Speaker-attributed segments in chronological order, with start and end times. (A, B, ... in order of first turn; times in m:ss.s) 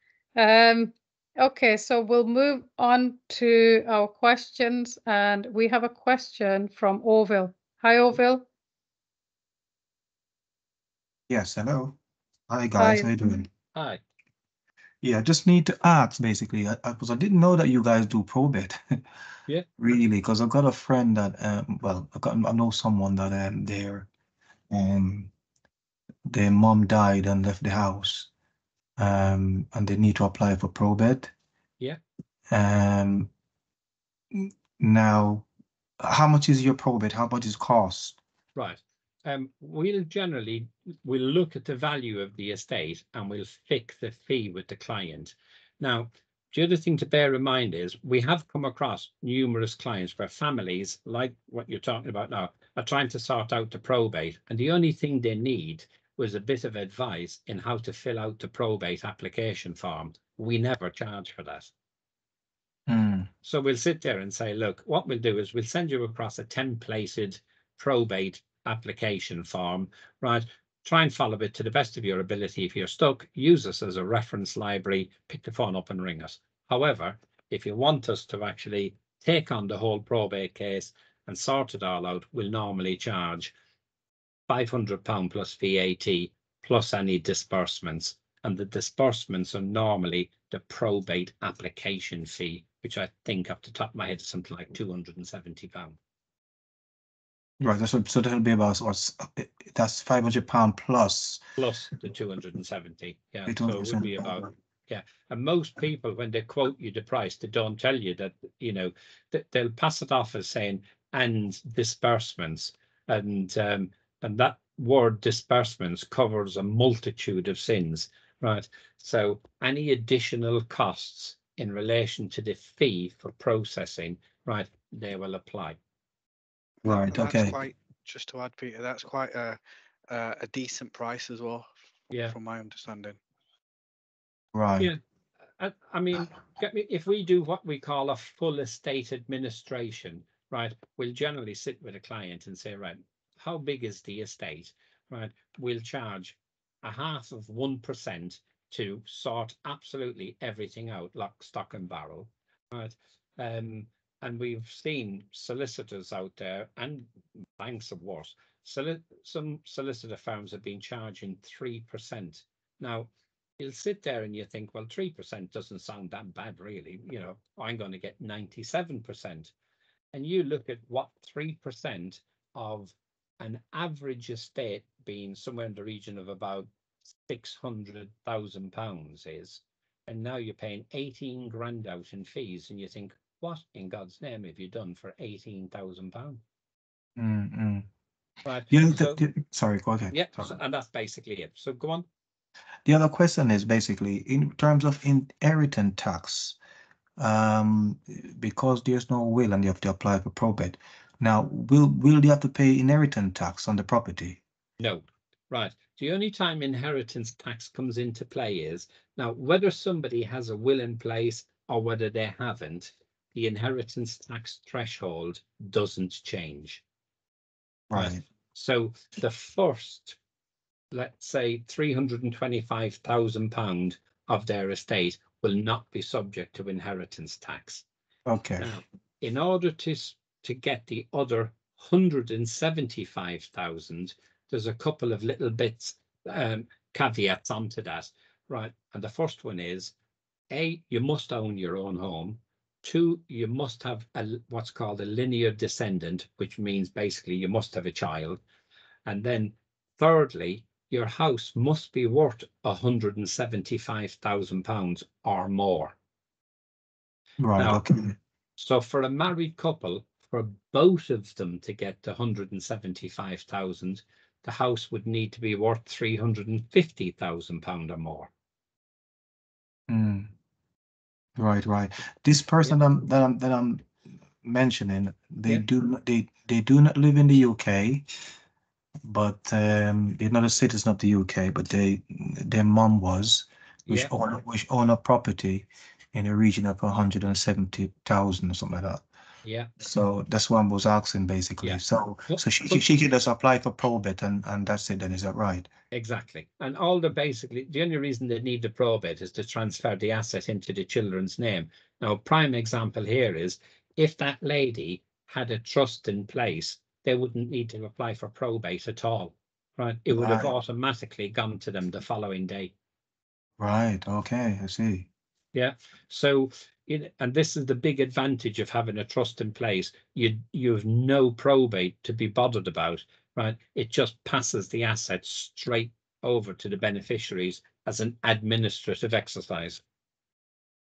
0:00.3-0:08.5 A
0:11.3-0:12.0 B
0:12.5-0:13.5 B
0:12.8-0:13.1 A
0:13.7-0:14.0 C
0:15.0-0:19.0 B
0:19.8-0:24.1 B
0:24.7-0:25.3 B
0:26.2-0:28.3 B
0:29.0-0:31.3 B
0:32.5-0:33.3 B
0:34.3-0:35.4 B
0:36.0-0:38.2 B
0:38.6-1:01.7 C
1:02.9-1:03.3 B
1:03.4-1:23.5 C
1:24.5-1:36.0 C
1:37.6-1:41.4 B
1:41.6-2:05.8 C
1:43.5-1:44.5 B
2:06.8-2:07.6 B
2:06.8-2:13.2 D
2:14.5-2:14.9 B
2:15.6-2:43.1 C
2:43.6-2:49.5 C
2:50.1-2:56.7 C
2:57.2-3:06.4 C
3:07.2-3:07.9 B
3:08.4-3:09.2 C
3:08.7-3:10.5 B
3:10.1-3:12.0 C
3:12.8-3:16.6 B
3:17.2-3:24.4 B
3:24.8-3:36.8 C
3:37.9-3:38.2 B
3:38.0-3:40.2 C
3:40.9-3:47.8 C
3:48.3-3:48.7 B
3:48.6-3:59.9 C
4:00.5-4:08.4 C
4:09.0-4:15.9 C
4:17.4-4:18.1 B
4:17.6-4:17.8 C
4:18.6-4:28.3 C
4:29.9-4:30.3 B
4:31.4-4:33.9 B
4:34.4-4:38.0 B
4:39.0-4:49.0 B
4:43.9-4:44.1 C
4:49.4-4:49.7 C
4:49.8-4:55.7 B
4:51.6-4:52.8 C
4:55.9-5:12.7 C
5:10.1-5:10.5 B
5:13.6-5:15.1 B
5:15.5-5:29.8 C